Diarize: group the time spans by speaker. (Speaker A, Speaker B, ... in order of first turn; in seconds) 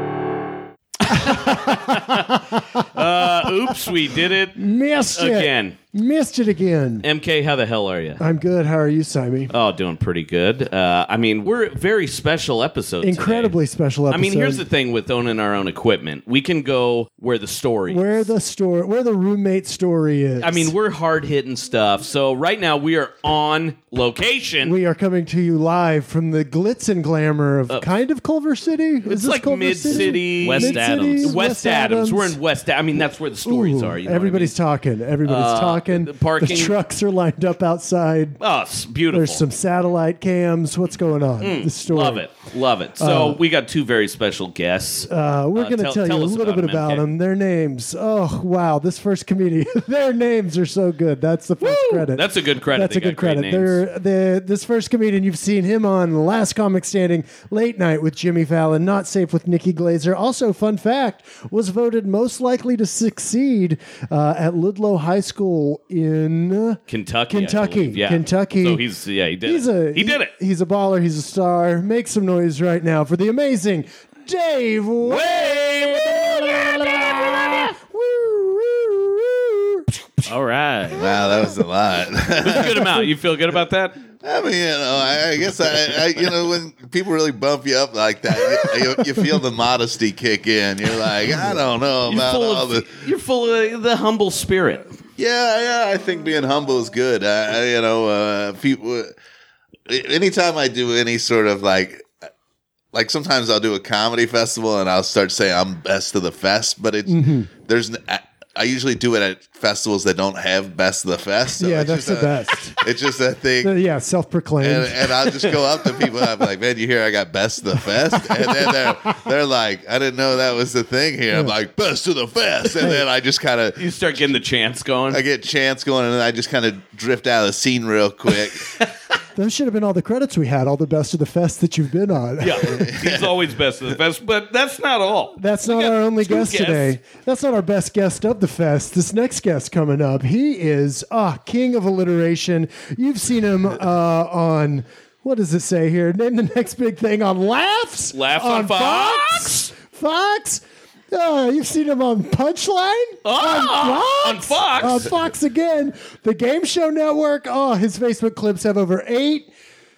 Speaker A: 1.1-3.9, 4.6-7.1, 8.2-9.5, 13.0-14.6, 17.9-20.7, 24.6-32.4, 33.4-38.4, 39.1-42.3, 43.0-43.4, 45.0-68.8, 69.4-80.0, 107.1-107.5, 111.5-112.8, 113.6-115.2, 122.8-123.0, 129.3-132.9, 135.4-159.5
Speaker B: 1.1-4.6, 5.1-5.8, 7.0-8.2, 9.5-13.6, 14.1-18.3, 20.4-24.7, 29.0-34.6, 35.2-36.8, 38.4-39.4, 41.4-47.1, 51.6-53.8, 66.9-70.3, 75.0-76.6, 82.4-84.0, 92.0-94.9, 123.8-125.2, 132.4-136.9, 148.1-149.7, 153.2-155.1
Speaker C: 29.9-31.4, 80.2-81.1
Speaker D: 80.9-83.0, 84.2-93.0, 95.2-99.1, 99.9-102.1, 102.9-113.7, 114.6-123.9, 125.1-128.8, 132.7-133.4